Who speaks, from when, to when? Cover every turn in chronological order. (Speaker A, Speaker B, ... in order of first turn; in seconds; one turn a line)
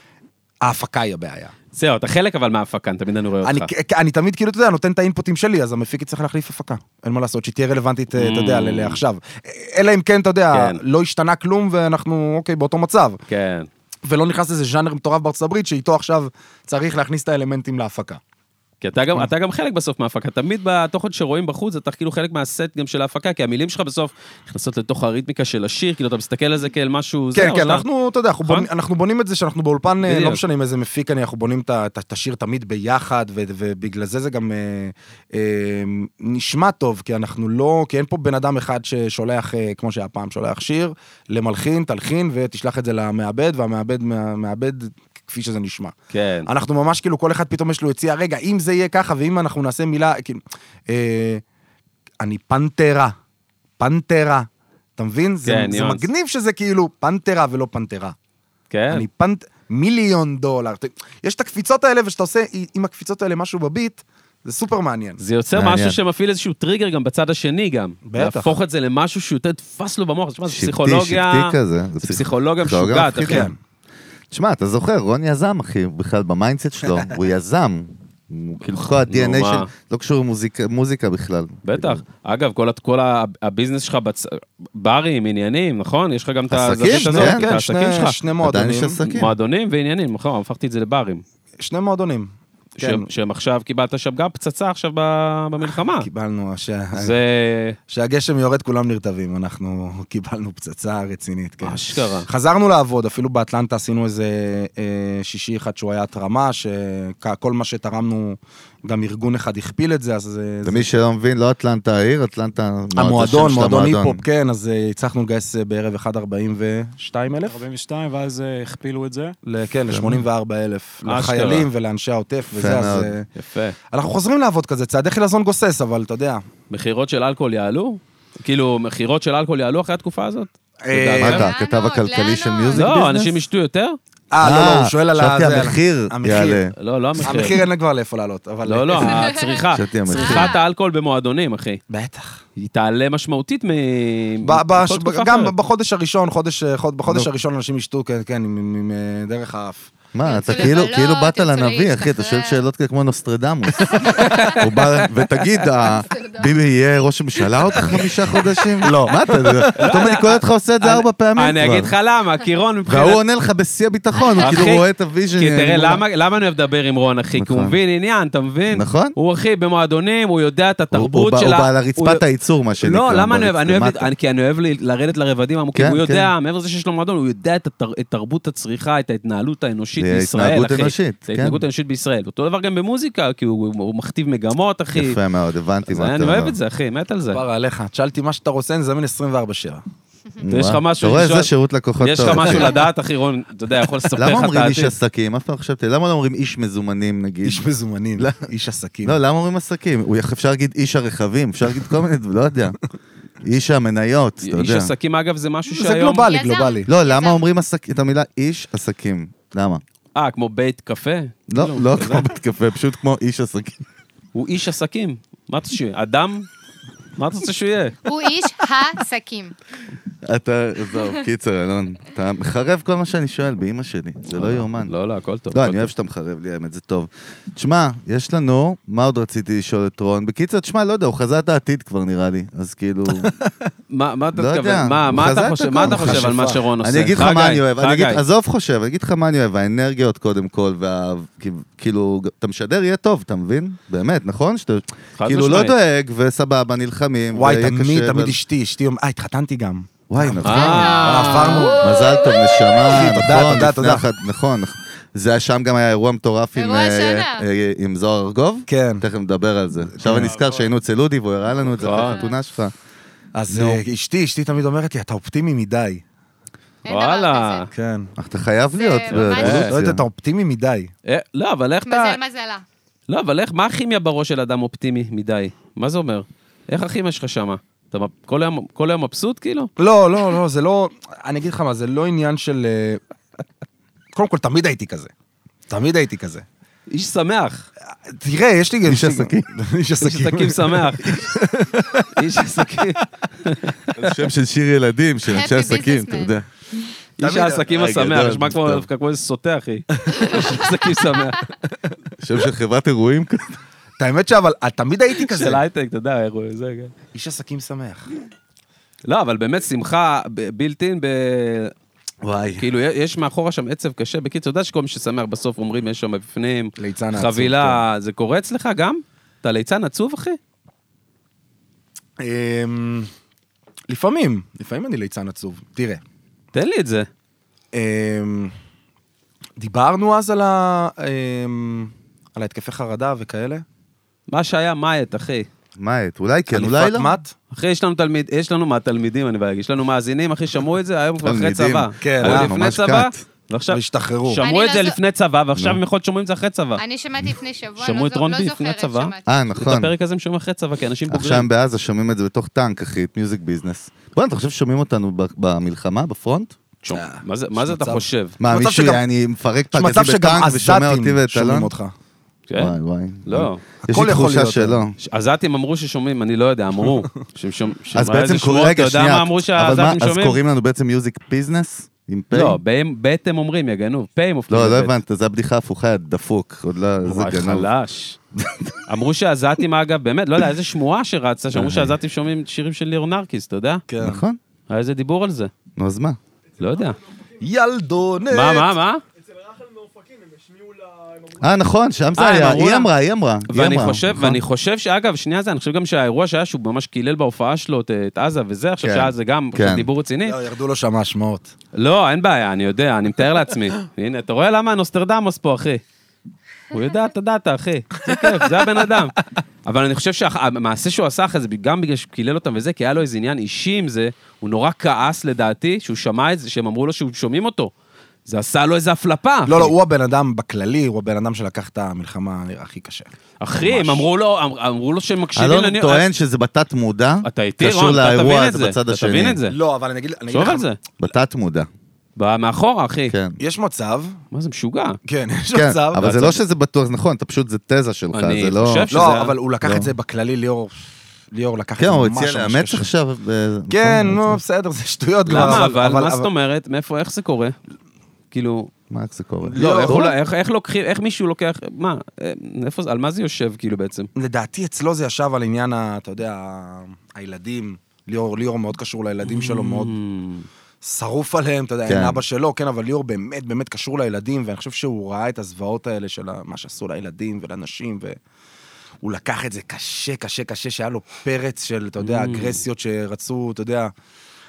Speaker A: 0.6-1.5
Speaker B: 1.7-3.7
Speaker A: 3.4-13.2
Speaker B: 8.2-9.0
Speaker B: 10.5-10.8
Speaker B: 13.3-13.7
Speaker A: 14.1-18.2
Speaker B: 18.8-27.9
Speaker A: 27.3-45.9
Speaker B: 30.0-30.4
Speaker B: 46.1-46.5
Speaker A: 46.5-51.4
Speaker A: 52.2-53.1
Speaker A: 53.8-58.1
Speaker B: 55.5-56.1
Speaker B: 58.7-59.1
Speaker A: 58.9-65.2
Speaker B: 65.2-73.5
Speaker C: 65.5-66.0
Speaker A: 68.0-68.6
Speaker C: 70.5-73.5
Speaker A: 73.3-73.6
Speaker C: 74.3-82.0
Speaker B: 78.7-79.7
Speaker B: 81.7-88.2
Speaker C: 86.5-87.5
Speaker A: 86.9-89.0
Speaker C: 88.4-89.3
Speaker B: 89.0-91.2
Speaker A: 91.6-93.0
Speaker B: 92.8-96.1
Speaker A: 96.0-97.2
Speaker B: 97.0-97.8
Speaker A: 97.9-110.9
Speaker B: 101.6-102.3
Speaker C: 110.6-114.2
Speaker A: 113.0-117.6
Speaker D: 117.5-119.4
Speaker A: 119.4-123.3
Speaker C: 119.9-120.2
Speaker B: 121.0-121.7
Speaker C: 122.5-123.2
Speaker B: 123.3-123.8
Speaker A: 123.9-126.5
Speaker B: 126.7-131.5
Speaker A: 130.8-131.5
Speaker C: 131.2-133.3
Speaker E: 131.3-132.9
Speaker B: 132.7-134.0
Speaker A: 134.3-136.7
Speaker C: 134.4-136.7
Speaker B: 136.8-137.6
Speaker A: 137.2-139.3
Speaker B: 138.7-141.8
Speaker E: 139.2-140.6
Speaker C: 139.7-140.5
Speaker A: 141.9-142.4
Speaker B: 142.6-145.5
Speaker A: 144.4-149.9
Speaker C: 150.1-161.9
Speaker E: 150.2-152.6
Speaker A: 153.9-154.5
Speaker B: 154.1-155.1
Speaker E: 156.1-156.5
Speaker A: 158.8-159.9
Speaker B: 159.8-163.2
Speaker C: 162.9-166.0
Speaker E: 164.2-164.6
Speaker B: 164.4-164.8
Speaker B: 165.4-172.2
Speaker C: 167.3-167.8
Speaker C: 168.7-169.2
Speaker C: 170.9-174.1
Speaker B: 172.8-185.2
Speaker C: 175.8-176.3
Speaker C: 180.0-181.6
Speaker C: 184.9-186.6
Speaker B: 185.9-187.4
Speaker A: 187.3-189.8
Speaker C: 190.4-192.8
Speaker B: 190.5-194.9
Speaker C: 194.2-197.7
Speaker A: 197.4-199.2
Speaker C: 199.0-202.8
Speaker C: 203.4-204.9
Speaker B: 204.4-206.3
Speaker A: 205.7-206.9
Speaker E: 206.2-207.4
Speaker C: 206.9-209.8
Speaker B: 210.2-212.3
Speaker C: 211.5-213.8
Speaker B: 214.3-216.5
Speaker B: 217.2-218.0
Speaker E: 218.1-219.6
Speaker C: 220.2-224.9
Speaker B: 224.3-225.9
Speaker C: 225.5-233.3
Speaker B: 233.9-238.2
Speaker C: 234.3-248.4
Speaker A: 235.8-236.6
Speaker B: 245.2-245.8
Speaker A: 247.3-251.9
Speaker C: 250.1-251.1
Speaker B: 250.4-251.8
Speaker E: 250.5-252.8
Speaker C: 251.8-262.7
Speaker A: 252.9-254.0
Speaker E: 256.6-257.4
Speaker A: 258.7-259.0
Speaker A: 260.0-260.4
Speaker B: 261.8-262.2
Speaker E: 261.9-262.3
Speaker A: 263.4-266.0
Speaker B: 263.5-263.8
Speaker E: 266.9-267.7
Speaker B: 266.9-267.7
Speaker A: 267.7-268.1
Speaker C: 268.2-270.0
Speaker E: 268.7-269.7
Speaker B: 269.1-269.7
Speaker A: 269.7-270.9
Speaker B: 271.1-272.2
Speaker E: 271.9-272.6
Speaker B: 273.1-279.7
Speaker A: 279.8-283.0
Speaker A: 284.1-285.1
Speaker A: 285.7-286.4
Speaker B: 286.9-287.7
Speaker A: 288.1-292.1
Speaker C: 288.9-289.5
Speaker B: 290.0-291.2
Speaker B: 292.1-294.0
Speaker C: 294.0-296.5
Speaker E: 295.3-296.3
Speaker B: 297.2-301.4
Speaker A: 297.2-297.7
Speaker C: 297.7-298.9
Speaker A: 300.1-300.5
Speaker C: 302.2-303.6
Speaker A: 304.0-305.6
Speaker B: 305.2-306.9
Speaker A: 307.1-308.1
Speaker B: 309.1-311.7
Speaker C: 312.2-312.6
Speaker B: 312.6-320.4
Speaker A: 316.8-317.8
Speaker A: 322.2-323.1
Speaker A: 323.9-326.0
Speaker B: 326.5-327.1
Speaker A: 327.7-328.5
Speaker A: 329.6-333.6
Speaker B: 334.3-335.5
Speaker C: 335.8-337.1
Speaker A: 336.5-337.3
Speaker B: 337.5-343.8
Speaker C: 341.2-343.2
Speaker A: 342.0-342.6
Speaker A: 343.7-344.4
Speaker E: 344.3-345.0
Speaker B: 344.3-346.8
Speaker E: 346.8-349.3
Speaker B: 347.8-351.5
Speaker C: 349.3-349.9
Speaker C: 351.1-356.6
Speaker B: 356.8-358.4
Speaker A: 356.9-359.0
Speaker C: 358.4-361.7
Speaker A: 359.7-361.9
Speaker B: 362.5-363.6
Speaker C: 362.6-364.9
Speaker A: 363.9-364.9
Speaker B: 365.0-370.4
Speaker C: 367.9-372.6
Speaker B: 372.3-375.0
Speaker C: 374.5-377.7
Speaker B: 377.0-378.2
Speaker C: 378.4-378.8
Speaker B: 378.9-383.8
Speaker C: 381.5-382.0
Speaker A: 383.9-384.2
Speaker C: 384.0-384.4
Speaker B: 384.7-385.5
Speaker C: 385.8-386.2
Speaker B: 386.6-387.0
Speaker D: 386.6-387.3
Speaker A: 387.4-388.8
Speaker B: 388.3-389.0
Speaker D: 389.2-391.4
Speaker C: 391.4-394.4
Speaker B: 392.1-392.9
Speaker B: 393.5-400.4
Speaker C: 398.8-399.9
Speaker A: 400.2-401.5
Speaker B: 401.7-405.8
Speaker B: 406.7-417.7
Speaker B: 418.3-419.7
Speaker A: 419.5-424.1
Speaker B: 423.4-426.1
Speaker C: 425.4-429.4
Speaker B: 427.2-429.6
Speaker A: 429.5-430.7
Speaker B: 430.3-430.8
Speaker C: 431.0-431.7
Speaker B: 432.2-433.1
Speaker C: 433.1-433.4
Speaker A: 433.4-434.2
Speaker B: 434.3-435.0
Speaker A: 435.1-436.4
Speaker C: 435.5-438.9
Speaker B: 438.1-439.3
Speaker A: 438.9-442.9
Speaker C: 439.6-439.9
Speaker C: 441.8-444.4
Speaker A: 443.7-446.3
Speaker C: 445.3-445.7
Speaker B: 445.3-447.6
Speaker B: 448.3-448.7
Speaker C: 448.9-450.1
Speaker A: 449.4-450.1
Speaker B: 449.6-454.1
Speaker A: 454.2-459.9
Speaker B: 459.3-460.5
Speaker A: 460.8-468.2
Speaker C: 461.9-462.2
Speaker A: 469.0-473.9
Speaker B: 472.0-472.6